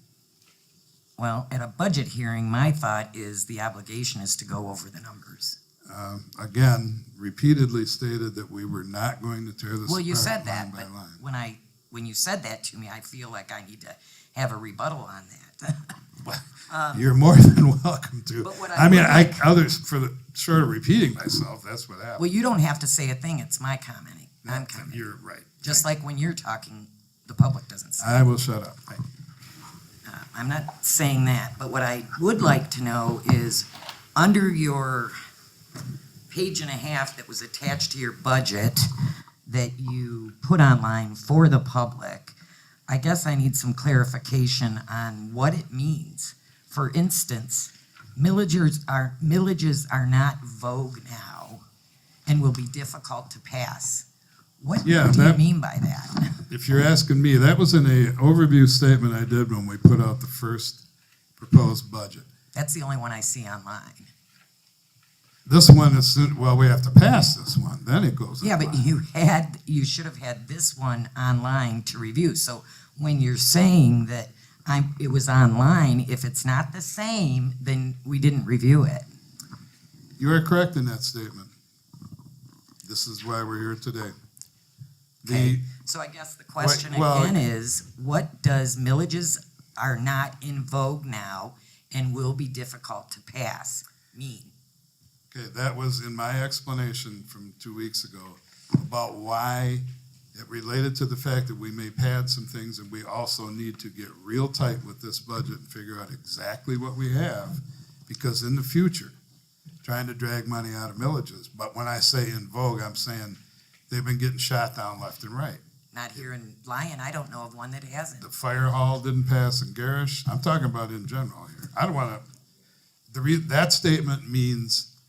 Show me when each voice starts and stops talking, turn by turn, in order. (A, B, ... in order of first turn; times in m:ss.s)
0:01.2-0:05.6 A
0:05.9-0:11.2 B
0:09.8-0:16.0 A
0:16.2-0:22.2 B
0:16.7-0:17.0 A
0:18.4-0:19.5 A
0:22.2-0:25.1 A
0:24.4-0:25.8 B
0:25.6-0:28.3 A
0:28.0-0:29.0 B
0:30.0-0:35.1 A
0:36.3-0:38.9 A
0:39.4-0:42.3 A
0:42.9-0:51.6 A
0:52.2-0:54.0 A
0:54.6-0:56.4 A
0:54.8-0:55.4 B
0:56.5-1:00.8 B
1:01.4-1:02.3 B
1:02.5-1:04.1 A
1:05.4-1:08.9 B
1:08.4-1:19.0 A
1:20.2-1:21.5 B
1:22.8-1:24.1 B
1:25.2-1:25.6 B
1:25.2-1:34.5 A
1:26.6-1:27.4 B
1:35.3-1:49.1 B
1:49.8-1:55.6 B
1:55.9-1:58.2 A
1:58.2-2:02.2 B
2:03.1-2:04.9 B